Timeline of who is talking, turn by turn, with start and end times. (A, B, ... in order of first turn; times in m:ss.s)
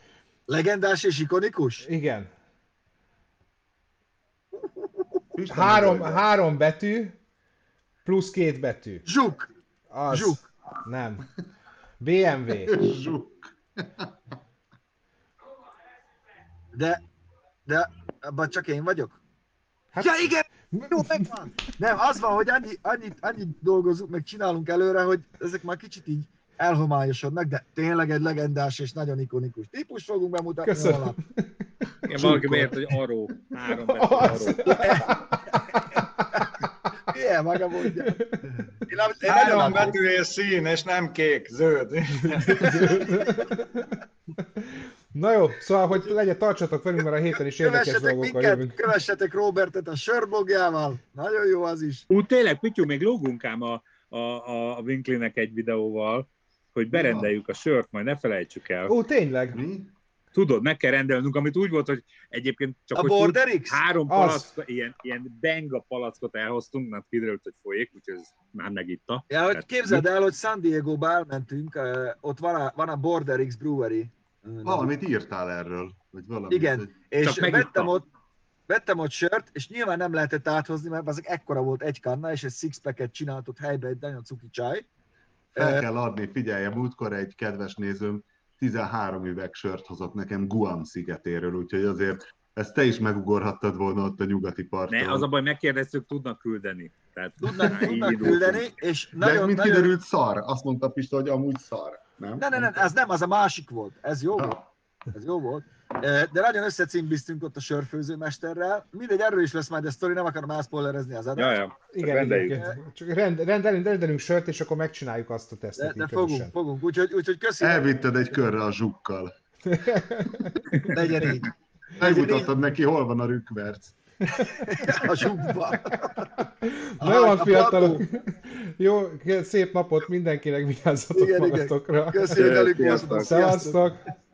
0:00.5-0:01.9 A
0:01.8-0:02.3 B
0:05.3-0:06.2 C
0:05.5-0:07.2 B
0:08.0-0:09.0 B
0:09.0-0:09.5 A
0:09.9-0:11.2 B
0:10.1-0:10.5 A
0:12.0-0:12.7 B
0:12.6-0:14.3 C
0:16.7-0:17.0 A
0:17.6-0:19.2 A
0:19.9-0:21.7 B
0:20.0-0:31.2 A
0:30.6-0:32.7 B
0:32.0-0:34.8 D
0:32.2-0:32.7 C
0:33.8-0:36.6 B
0:34.6-0:35.6 A
0:37.1-0:40.0 A
0:38.0-0:38.5 B
0:39.3-0:43.0 E
0:42.3-0:48.8 B
0:42.6-0:43.6 A
0:47.5-0:52.0 A
0:52.1-0:59.0 D
0:56.9-0:57.3 C
0:58.9-0:59.6 B
0:59.5-0:59.9 C
1:00.3-1:10.0 D
1:02.9-1:03.8 A
1:04.1-1:04.4 B
1:09.3-1:14.9 A
1:14.6-1:16.9 C
1:16.5-1:18.1 A
1:17.2-1:17.9 D
1:18.7-1:24.8 A
1:25.5-1:25.8 A
1:25.5-1:35.3 C
1:34.9-1:38.7 D
1:37.4-1:39.9 A
1:39.2-1:42.8 C
1:42.4-1:51.6 A
1:51.4-1:52.6 D
1:51.9-1:56.5 B
1:52.5-1:52.8 A
1:55.8-1:57.9 A
1:57.6-1:59.3 C
1:59.7-2:00.6 B
2:00.9-2:02.5 A
2:02.0-2:03.9 C
2:04.5-2:06.3 A
2:06.6-2:14.0 B
2:07.0-2:08.0 A
2:11.1-2:13.9 A
2:12.3-2:13.3 D